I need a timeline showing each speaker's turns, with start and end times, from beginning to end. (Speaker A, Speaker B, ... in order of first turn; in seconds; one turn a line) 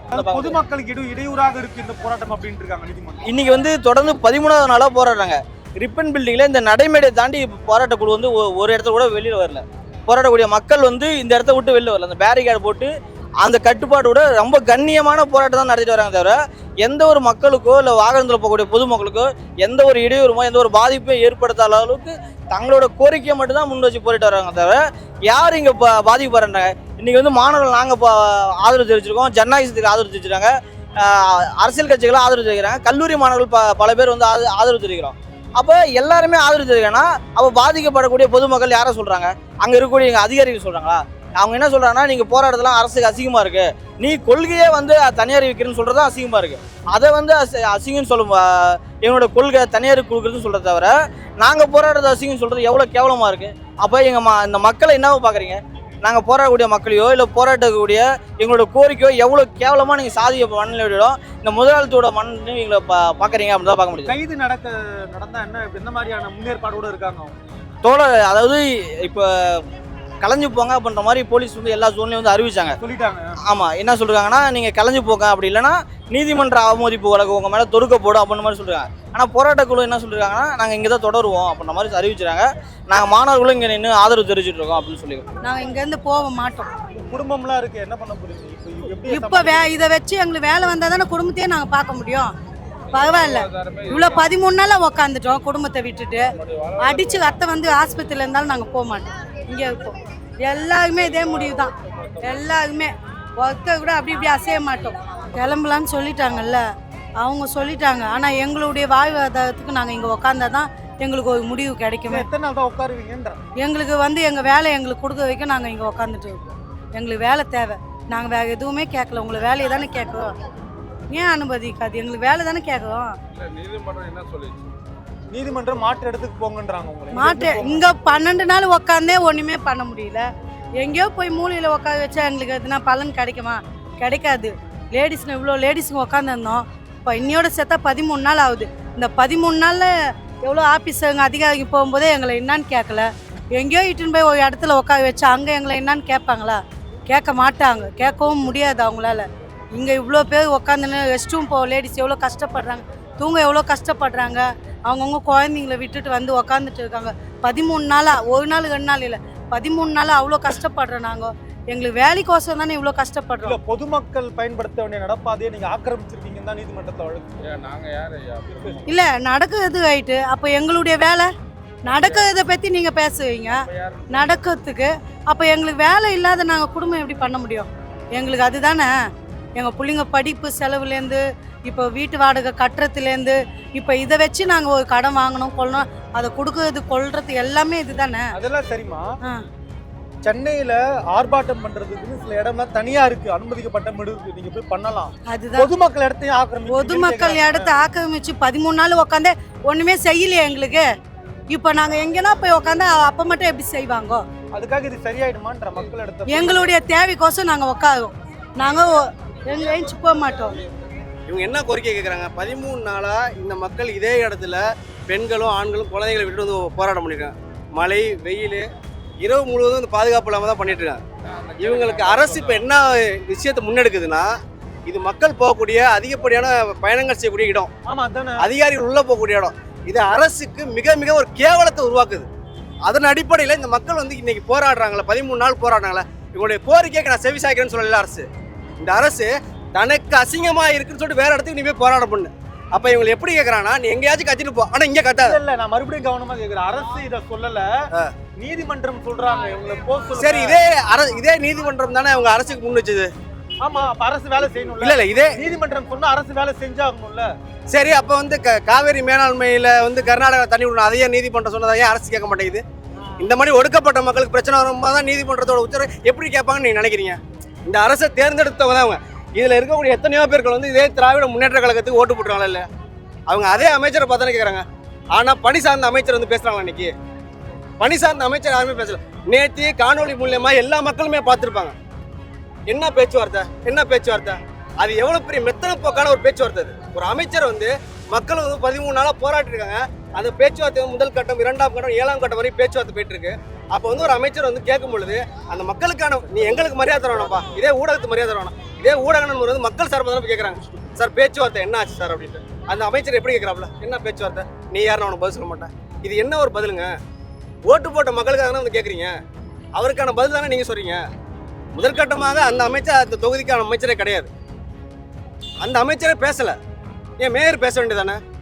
Speaker A: 0.1-3.2
Speaker B: 0.1-0.6
Speaker B: 3.2-64.2
Speaker A: 64.0-67.3
Speaker B: 67.8-69.6
Speaker B: 70.2-72.8
Speaker A: 72.8-73.3
Speaker B: 73.4-85.3
Speaker C: 85.4-86.7
Speaker A: 86.9-89.7
Speaker C: 89.1-92.3
Speaker C: 92.9-96.2
Speaker C: 96.8-106.6
Speaker C: 107.2-112.2
Speaker A: 112.1-113.4
Speaker C: 113.6-120.3
Speaker C: 121.1-123.1
Speaker D: 123.4-124.6
Speaker A: 125.3-127.9
Speaker C: 127.1-130.2
Speaker C: 130.8-139.9
Speaker C: 140.4-163.6
Speaker A: 163.4-167.3
Speaker D: 167.4-168.8
Speaker A: 168.5-168.8
Speaker C: 168.9-171.3
Speaker C: 171.8-178.9
Speaker D: 173.7-174.3
Speaker C: 179.6-188.3
Speaker A: 188.3-189.0
Speaker A: 190.2-197.7
Speaker C: 195.3-195.7
Speaker C: 196.7-200.8
Speaker C: 201.5-204.2
Speaker A: 204.5-206.7
Speaker C: 206.3-210.6
Speaker E: 211.3-218.7
Speaker E: 219.2-221.0
Speaker E: 221.6-224.3
Speaker E: 224.8-227.7
Speaker A: 227.9-228.4
Speaker E: 228.4-232.3
Speaker E: 232.8-238.3
Speaker E: 238.8-245.4
Speaker A: 245.2-247.7
Speaker A: 248.3-250.6
Speaker E: 250.2-253.1
Speaker A: 253.6-257.3
Speaker E: 254.4-255.5
Speaker E: 257.7-262.6
Speaker E: 263.2-272.7
Speaker E: 273.3-276.9
Speaker E: 277.8-281.8
Speaker E: 282.7-307.0
Speaker E: 307.6-309.2
Speaker E: 309.7-311.0
Speaker E: 311.7-314.3
Speaker E: 315.6-316.6
Speaker E: 317.2-318.2